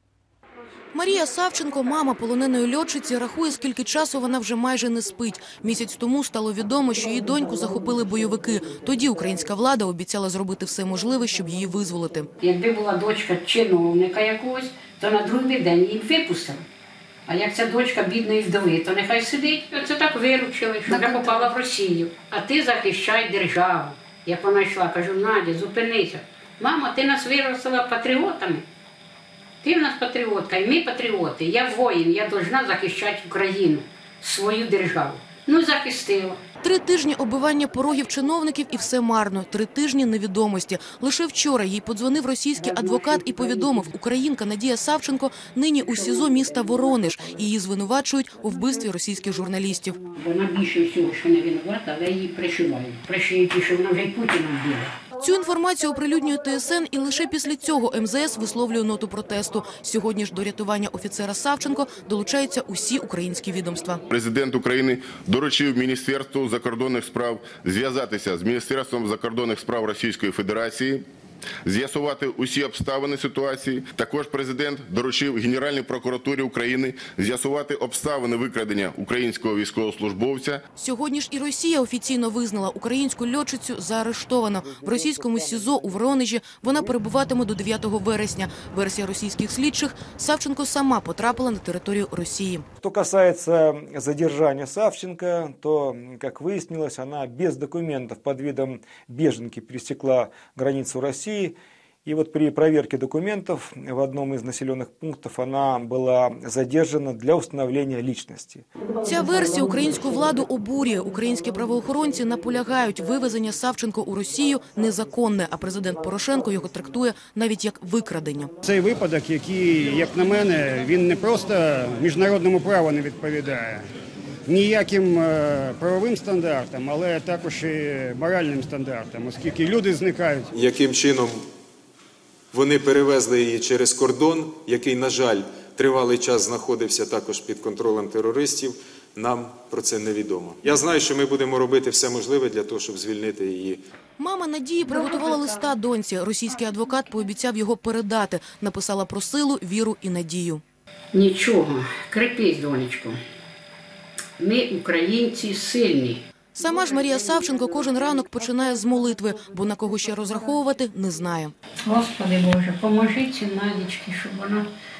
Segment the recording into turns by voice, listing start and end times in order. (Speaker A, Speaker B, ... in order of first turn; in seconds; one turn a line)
Speaker A: 0.9-12.3
Speaker B: 12.4-16.6
Speaker B: 17.3-28.7
Speaker B: 29.6-36.4
Speaker A: 36.6-50.0
Speaker B: 42.6-43.9
Speaker B: 50.0-55.0
Speaker A: 55.2-64.0
Speaker C: 64.1-71.0
Speaker C: 71.7-80.6
Speaker A: 80.8-92.7
Speaker D: 92.8-108.7
Speaker A: 109.0-118.5
Speaker E: 118.6-123.9
Speaker E: 124.5-130.5
Speaker F: 130.5-131.4
Speaker F: 132.5-143.8
Speaker A: 144.2-150.6
Speaker B: 151.1-153.2
Speaker B: 154.4-156.2
Speaker A: 156.6-161.6
Speaker B: 161.8-164.7